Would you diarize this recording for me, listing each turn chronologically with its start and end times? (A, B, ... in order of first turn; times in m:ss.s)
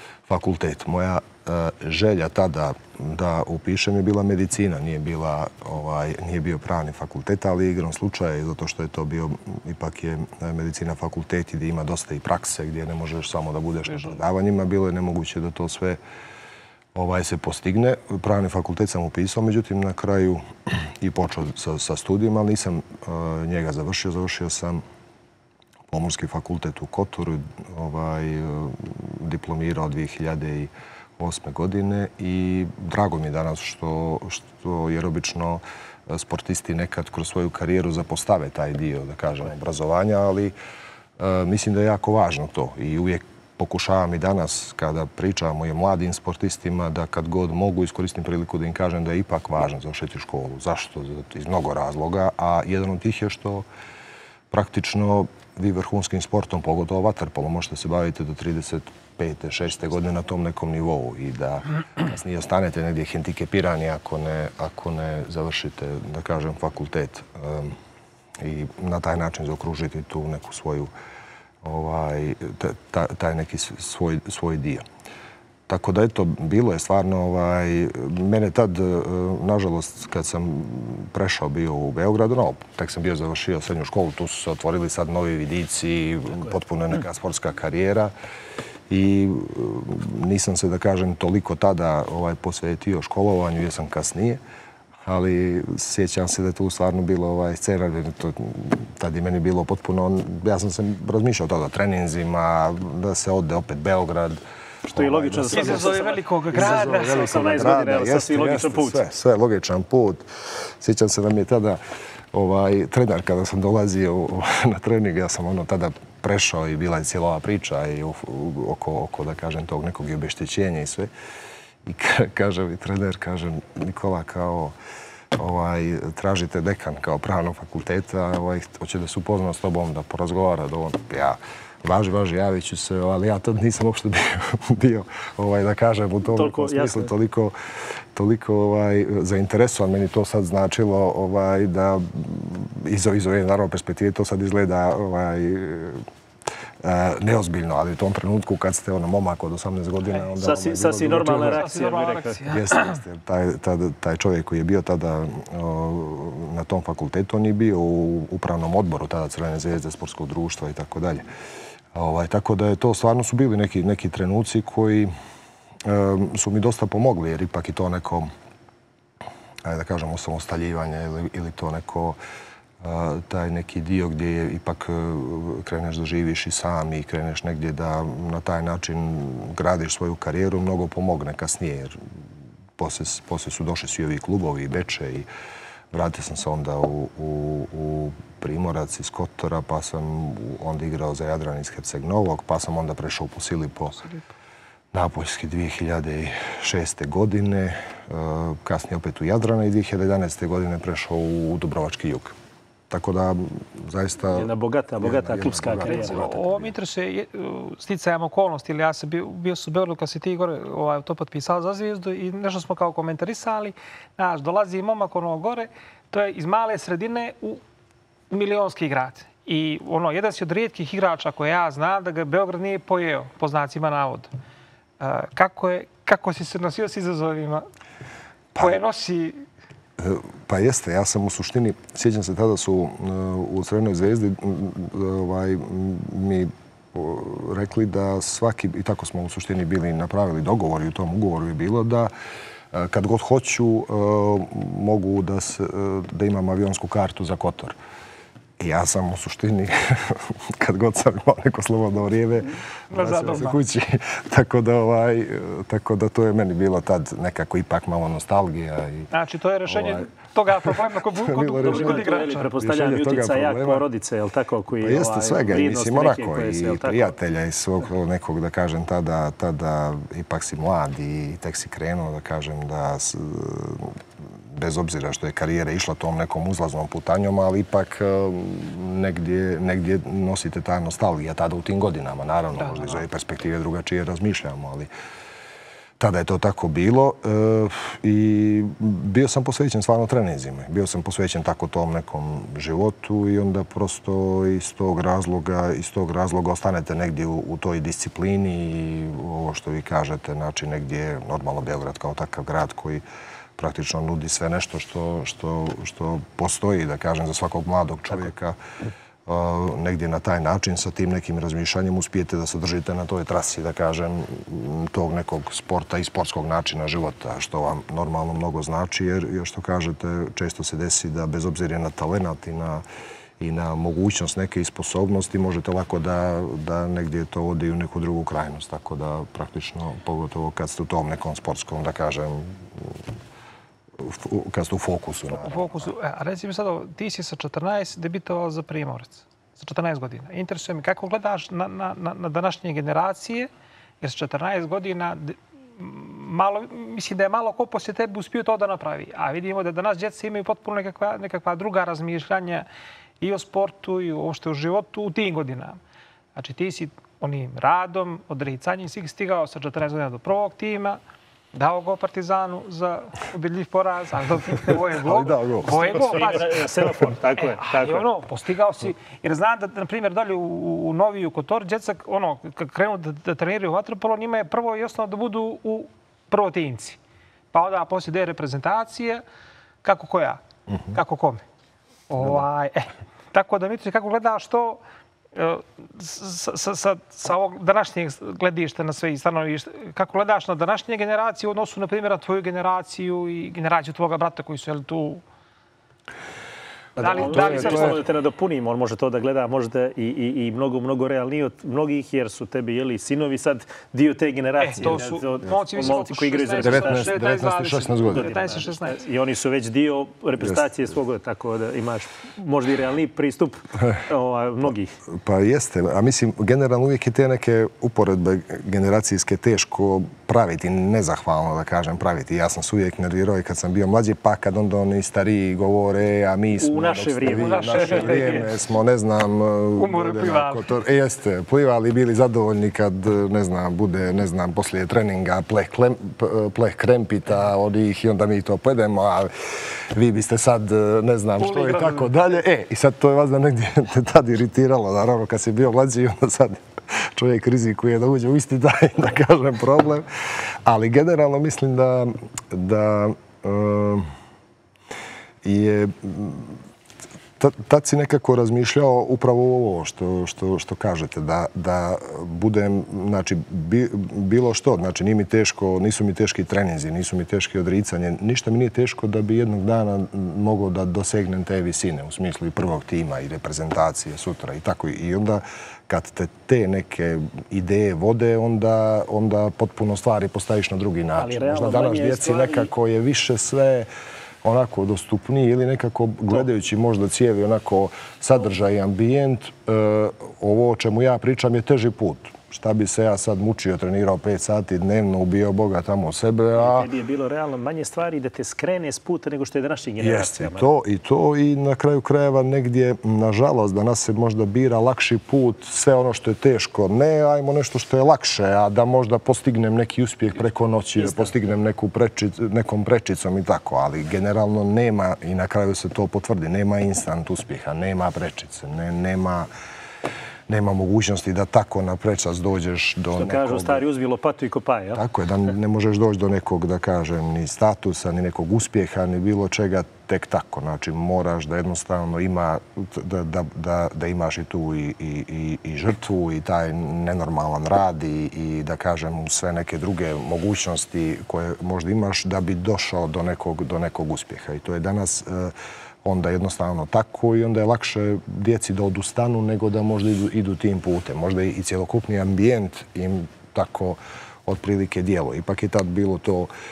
0:00.3-0:16.0 A
0:13.9-0:14.2 B
0:16.9-0:24.8 A
0:25.9-0:40.5 A
0:41.2-0:53.6 A
0:54.5-1:07.8 A
1:08.4-1:10.9 A
1:11.6-1:14.8 A
1:15.7-1:28.1 A
1:28.9-1:34.4 A
1:35.0-1:51.8 A
1:44.9-1:49.0 C
1:45.5-1:47.4 B
1:52.3-2:01.1 A
2:01.8-2:04.7 A
2:05.3-2:17.5 A
2:16.2-2:17.1 C
2:18.1-2:26.0 A
2:26.8-2:31.6 A
2:30.4-2:32.5 C
2:31.3-2:33.0 B
2:32.5-2:41.2 A
2:41.9-2:45.1 A
2:45.8-2:48.3 A
2:49.6-2:52.2 A
2:52.8-3:02.0 A
3:02.8-3:05.3 A
3:05.9-3:14.1 A
3:14.9-3:22.3 A
3:22.9-3:24.5 A
3:24.3-3:26.2 C
3:25.0-3:26.7 A
3:25.8-3:37.6 B
3:38.3-3:44.3 B
3:45.0-3:47.6 B
3:48.6-3:49.4 B
3:50.0-4:02.1 A
4:02.7-4:07.8 A
4:08.6-4:19.1 A
4:12.9-4:13.6 B
4:19.1-4:22.5 B
4:19.7-4:23.8 A
4:21.6-4:27.1 C
4:24.8-4:34.0 A
4:34.5-4:44.9 A
4:46.0-5:03.0 A
5:03.6-5:08.5 A
5:09.2-5:22.8 A
5:23.4-5:33.0 A
5:34.0-5:35.9 A
5:35.3-5:43.5 B
5:44.0-5:52.6 B
5:53.2-5:55.8 B
5:56.4-6:01.0 B
6:01.5-6:17.0 B
6:05.0-6:06.0 A
6:05.7-6:08.0 C
6:17.5-6:19.2 B
6:19.8-6:20.4 B
6:20.9-6:21.4 B
6:22.1-6:24.8 B
6:25.3-6:35.2 B
6:37.0-6:47.2 C
6:37.0-6:38.0 B
6:37.1-6:38.0 A
6:44.6-6:49.0 B
6:46.6-6:48.3 A
6:48.1-6:54.9 C
6:55.1-7:30.1 A
7:06.6-7:08.4 C
7:07.3-7:08.5 B
7:09.8-7:10.7 B
7:21.4-7:22.1 B
7:30.6-7:34.1 A
7:35.4-7:36.6 A
7:37.4-8:03.9 A
8:01.2-8:02.7 C
8:04.4-8:16.9 A
8:16.5-8:20.7 C
8:20.0-8:39.5 A
8:40.5-8:43.8 A
8:43.1-8:45.0 C
8:44.9-9:16.5 A